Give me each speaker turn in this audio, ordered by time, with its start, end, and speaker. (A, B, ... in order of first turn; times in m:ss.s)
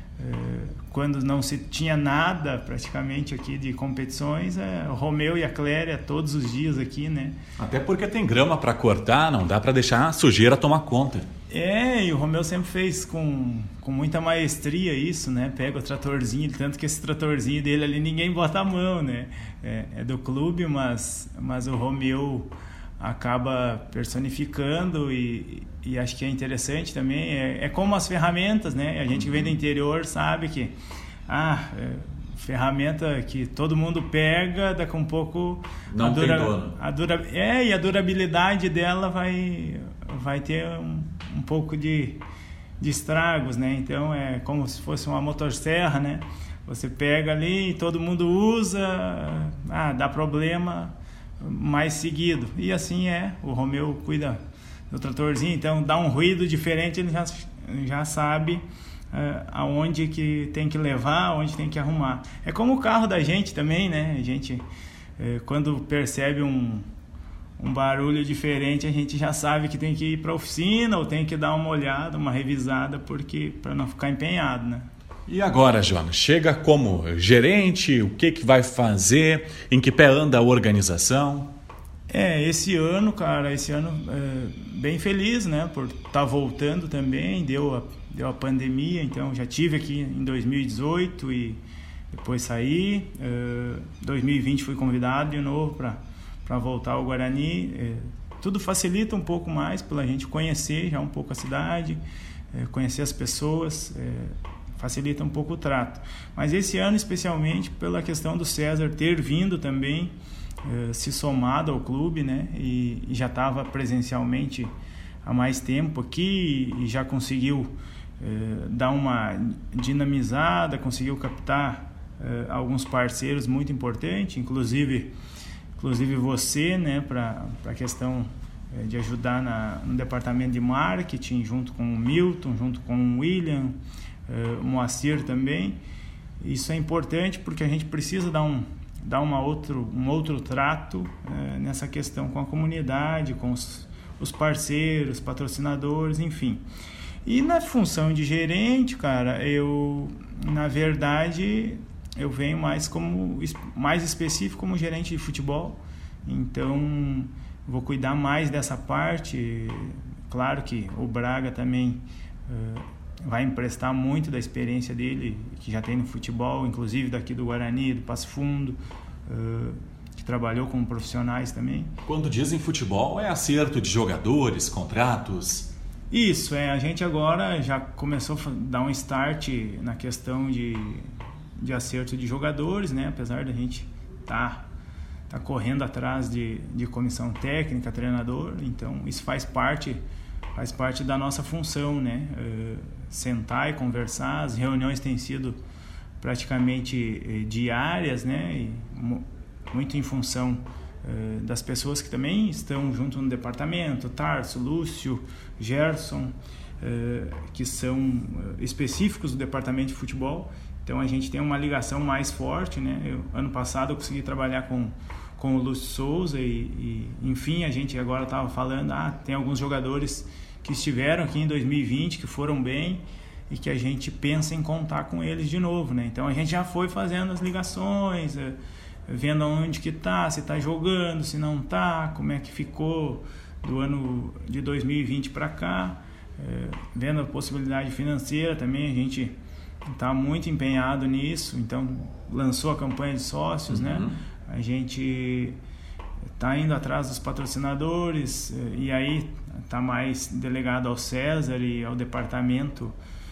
0:00.2-0:07.4 A
0:07.6-0:11.3 B
0:11.5-0:30.8 A
0:29.1-0:29.5 B
0:31.3-0:42.2 A
0:35.9-0:36.8 B
0:42.8-1:04.7 A
1:05.2-1:06.8 A
1:07.6-1:14.9 A
1:15.3-1:21.5 B
1:22.1-1:42.0 A
1:42.5-2:05.1 A
2:05.8-2:13.8 A
2:14.3-2:15.8 A
2:16.4-2:26.6 A
2:27.2-2:51.9 A
2:52.1-2:55.7 B
2:56.1-3:01.1 A
3:01.6-3:04.7 A
3:05.3-3:10.0 A
3:10.6-3:15.6 A
3:16.2-3:59.3 A
3:59.9-4:05.6 A
4:03.7-4:04.2 B
4:06.4-4:13.0 A